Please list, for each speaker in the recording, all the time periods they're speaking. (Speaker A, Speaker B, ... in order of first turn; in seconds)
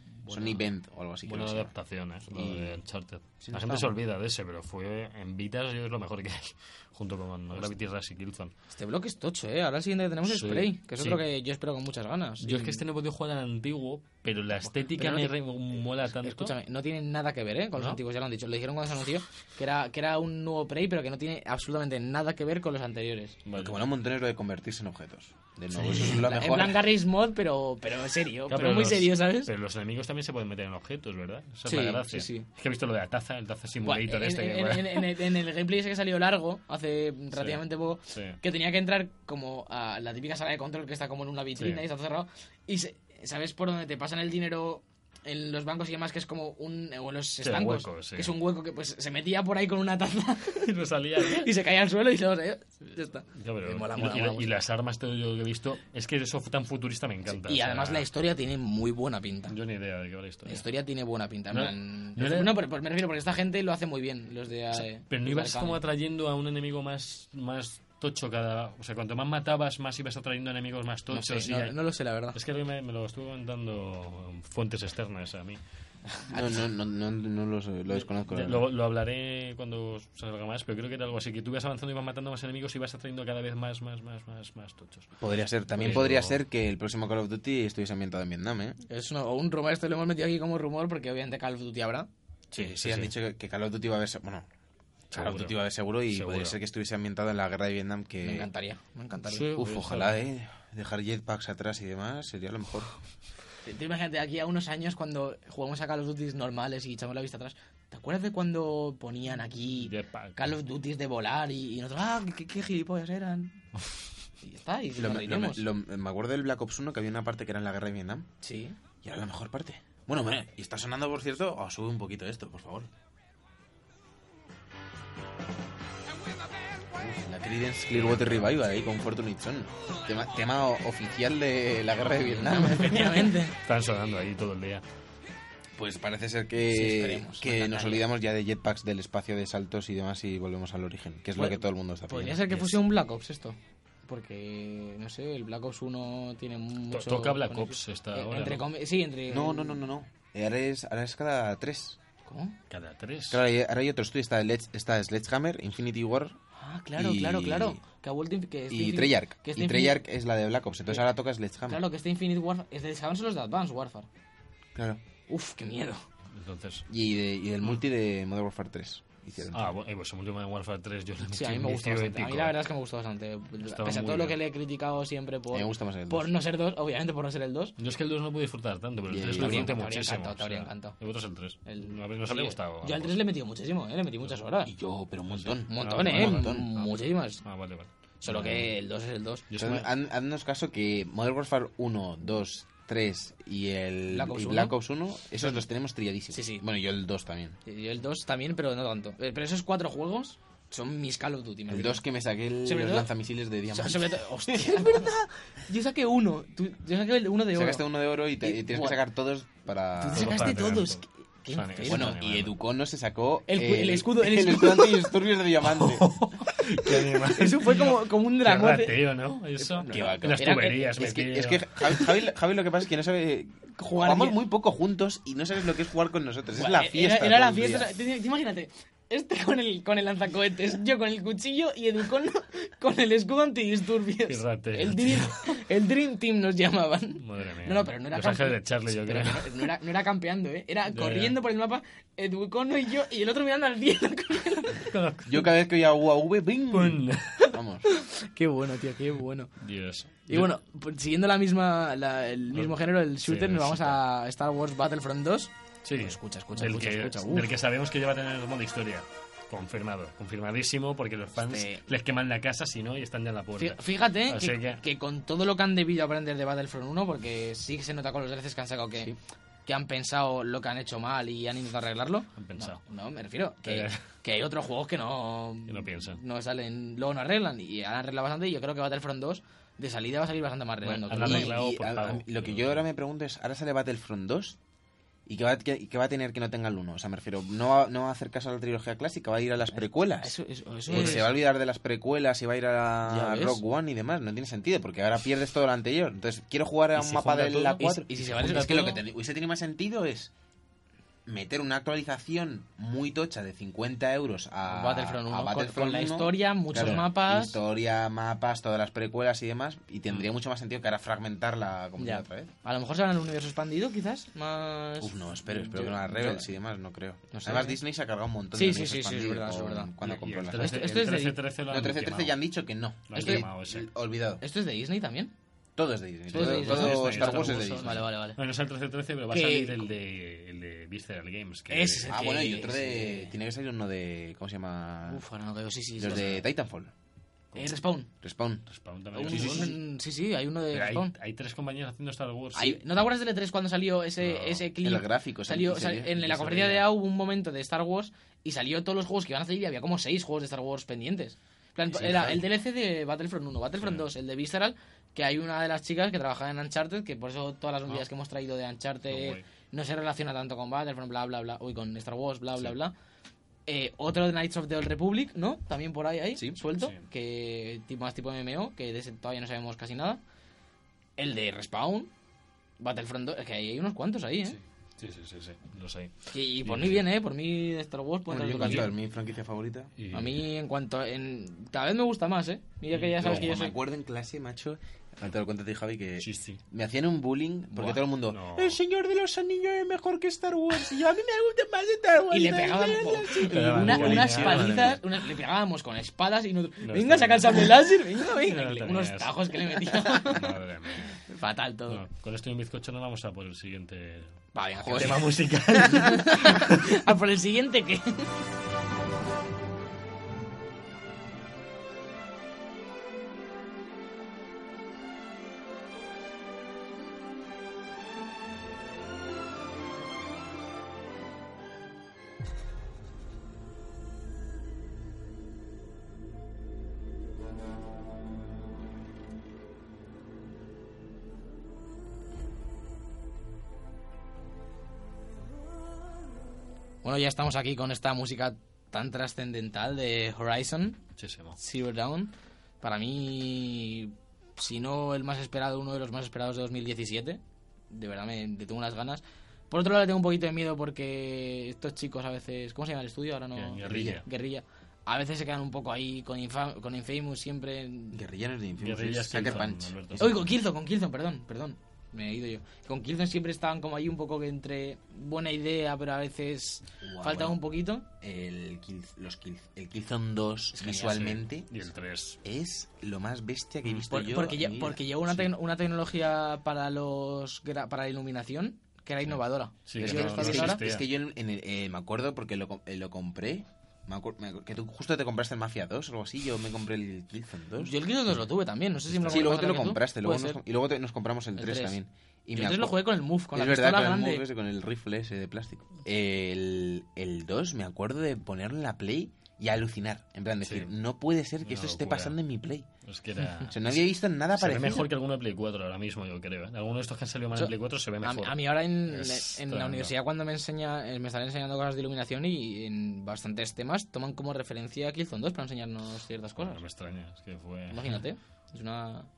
Speaker A: 0.2-0.6, 1.3-8.5, 10.3-11.2, 12.4-16.5, 23.4-23.8, 25.9-26.2, 28.5-35.1, 37.3-38.4, 41.6-41.8, 47.4-48.3, 50.6-51.5, 53.3-58.1, 59.5-60.6, 61.5-62.6, 64.8-71.8, 72.3-75.6, 78.3-85.2, 85.8-86.4, 92.5-93.1, 95.1-96.5, 99.3-100.2, 109.8-110.4, 127.9-128.6, 133.5-134.8, 142.5-142.8, 146.9-148.6, 152.7-153.4, 166.3-166.9, 169.5-172.6, 173.6-174.4, 177.8-183.2, 185.3-188.7, 189.5-189.9, 210.1-212.6, 215.6-221.9, 234.3-235.5, 237.2-239.7, 240.9-241.4, 244.8-245.5, 246.7-247.5, 249.6-250.5, 252.5-254.0, 255.8-264.8, 272.4-272.8, 273.6-274.0, 275.7-276.2, 280.8-282.8, 296.9-298.8, 306.7-307.1, 320.0-322.4, 323.1-323.9, 326.3-332.1, 336.1-336.4, 338.7-339.8, 340.7-342.8, 344.2-344.6, 346.2-346.9, 353.8-354.1, 359.1-359.4, 374.5-377.1, 378.6-378.9, 380.0-380.4, 382.9-383.6, 386.2-386.6, 387.8-388.8, 393.5-395.0, 396.8-397.8, 398.3-399.7, 400.2-401.2, 401.9-406.8, 441.2-441.6, 453.6-454.2, 458.8-460.4, 471.1-472.4, 479.9-481.1, 489.1-489.6, 500.6-500.9, 501.6-502.4, 503.1-510.1, 516.6-518.2
Speaker B: 0.3-1.7, 2.3-2.8, 3.4-4.0, 23.6-26.8, 76.3-78.6, 85.2-88.8, 92.5-94.5, 95.1-98.5, 99.5-102.9, 115.0-118.3, 119.0-122.9, 126.9-133.2, 135.8-142.4, 149.3-152.0, 153.3-156.4, 157.0-157.8, 158.7-161.8, 164.7-165.0, 166.9-169.7, 175.5-176.3, 179.1-179.8, 184.6-186.7, 189.6-197.6, 201.7-205.1, 207.5-210.6, 211.8-216.1, 219.9-227.9, 245.3-247.9, 281.1-284.6, 285.3-290.3, 290.9-300.3, 301.3-312.5, 315.0-321.0, 321.7-324.4, 325.8-328.0, 332.1-335.2, 336.0-336.9, 338.2-338.6, 339.3-339.8, 344.8-346.3, 352.0-352.4, 378.3-379.9, 383.2-395.0, 404.8-405.3, 453.8-454.2, 458.1-460.4, 467.0-467.6, 468.2-471.7, 472.4-475.1, 480.0-487.9, 489.3-502.9, 503.7-505.1
Speaker C: 8.7-12.8, 14.6-15.3, 16.2-23.4, 25.9-29.5, 31.7-32.5, 33.8-54.5, 57.3-59.5, 60.5-65.8, 71.1-72.4, 76.2-76.5, 88.9-92.1, 98.2-99.5, 103.6-113.6, 114.4-115.7, 118.4-118.8, 132.3-133.6, 136.7-138.1, 141.4-149.8, 152.3-152.6, 156.6-160.0, 161.7-164.1, 165.3-166.0, 171.2-177.8, 179.4-180.9, 181.7-184.7, 185.7-187.4, 188.2-189.4, 194.1-194.8, 196.3-196.6, 197.7-202.0, 202.6-203.1, 203.7-209.0, 210.0-212.2, 213.5-215.1, 216.9-219.0, 219.6-221.1, 223.8-224.4, 226.6-244.9, 247.8-249.5, 250.3-257.5, 261.4-261.8, 263.6-269.1, 269.7-281.6, 290.2-291.3, 293.1-293.6, 297.8-299.0, 304.7-307.6, 312.0-316.5, 317.3-317.8, 318.5-319.9, 320.5-321.4, 323.1-323.4, 324.4-325.3, 326.3-328.4, 329.3-329.8, 331.7-333.3, 335.1-336.3, 337.6-338.1, 339.1-341.1, 342.5-362.9, 363.7-370.2, 371.2-372.1, 372.8-374.6, 376.3-378.9, 380.1-383.7, 392.3-400.4, 401.3-402.0, 404.5-408.3, 437.0-441.0, 441.6-447.4, 447.9-458.2, 460.2-468.1, 470.7-471.3, 474.1-480.8, 487.8-490.6, 491.6-492.0, 492.5-494.4, 507.6-516.8, 517.9-519.3